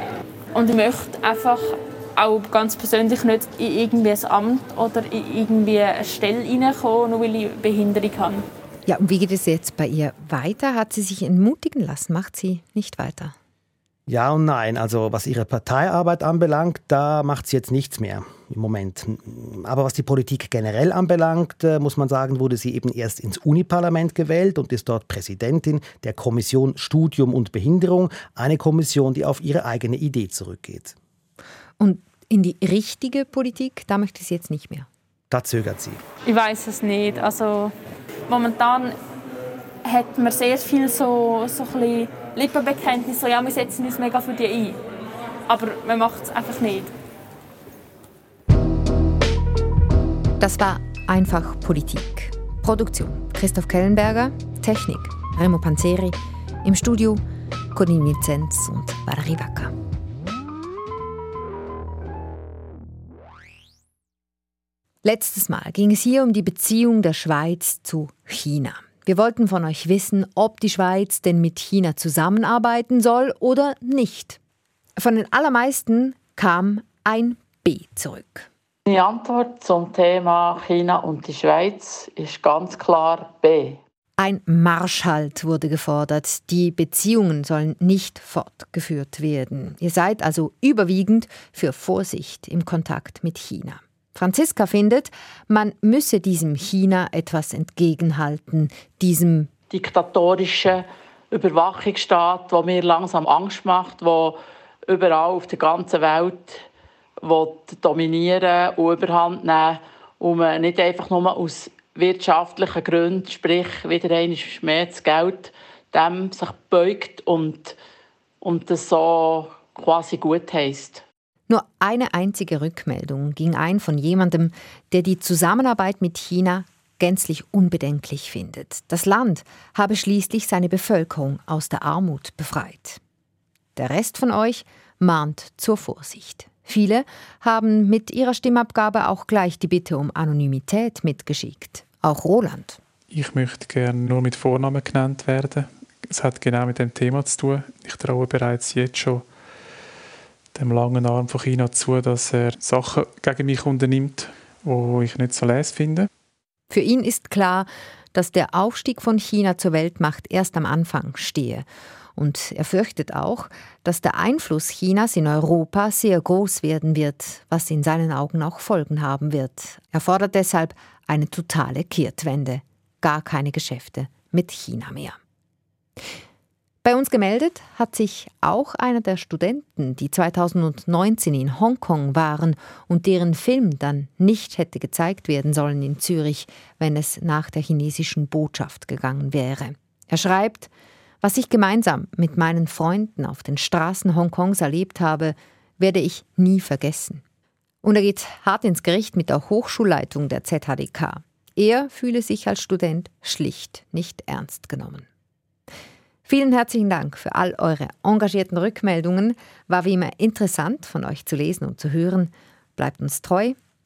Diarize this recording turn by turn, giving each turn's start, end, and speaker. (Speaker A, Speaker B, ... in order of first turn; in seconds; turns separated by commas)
Speaker A: 0.5-8.4, Speaker B: 8.9-13.3, Speaker C: 14.1-30.9, Speaker B: 31.8-34.9, Speaker C: 35.3-36.0, Speaker A: 36.3-37.7, Speaker A: 38.3-38.9, Speaker A: 39.9-44.8, Speaker A: 45.5-46.9, Speaker B: 50.4-57.2, Speaker B: 57.7-59.7, Speaker B: 65.0-74.4, Speaker B: 75.0-78.5, Speaker D: 78.9-83.8, Speaker B: 84.2-99.5, Speaker D: 99.7-106.7, Speaker D: 107.2-117.8, Speaker D: 118.4-121.0, Speaker B: 121.5-133.0, Speaker B: 133.8-142.8, Speaker E: 143.1-149.3, Speaker E: 150.5-156.1, Speaker B: 156.7-161.6, Speaker B: 162.2-175.2, Speaker B: 176.8-190.7, Speaker B: 191.2-197.2, Speaker B: 197.8-205.1, Speaker B: 206.3-213.6